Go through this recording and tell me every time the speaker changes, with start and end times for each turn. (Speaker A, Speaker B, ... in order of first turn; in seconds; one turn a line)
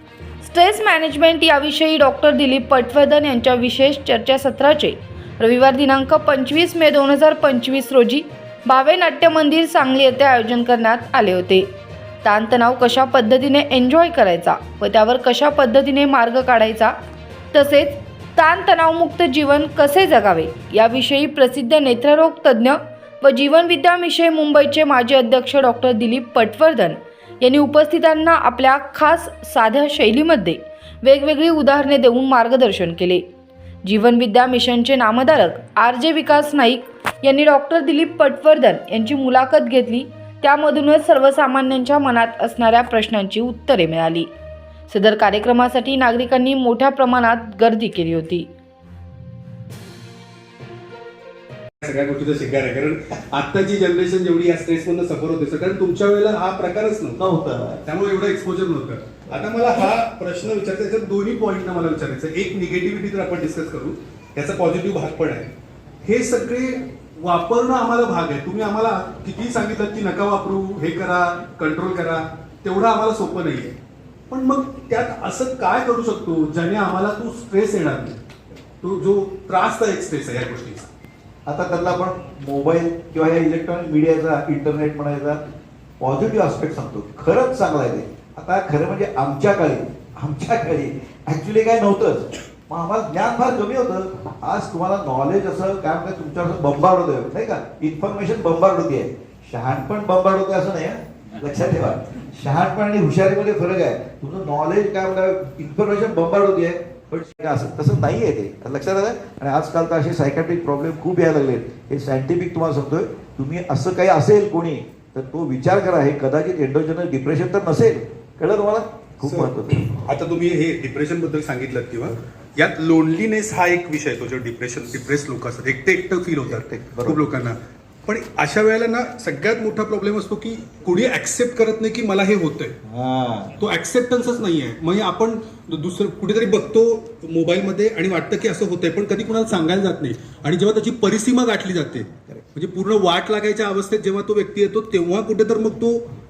Speaker A: 0.4-11.7
Speaker A: 12.2-16.9
Speaker A: 17.5-33.2
Speaker A: 33.8-44.3
Speaker A: 44.9-48.5
Speaker B: 51.8-57.2
Speaker C: 57.2-57.8
Speaker B: 57.8-65.5
Speaker B: 66.0-73.8
Speaker B: 74.3-78.2
Speaker B: 78.8-80.9
Speaker C: 81.5-85.4
Speaker C: 86.0-119.9
Speaker B: 119.2-127.5
Speaker C: 126.5-127.2
Speaker B: 128.1-132.8
Speaker C: 132.8-133.6
Speaker B: 133.6-146.0
Speaker C: 142.0-142.4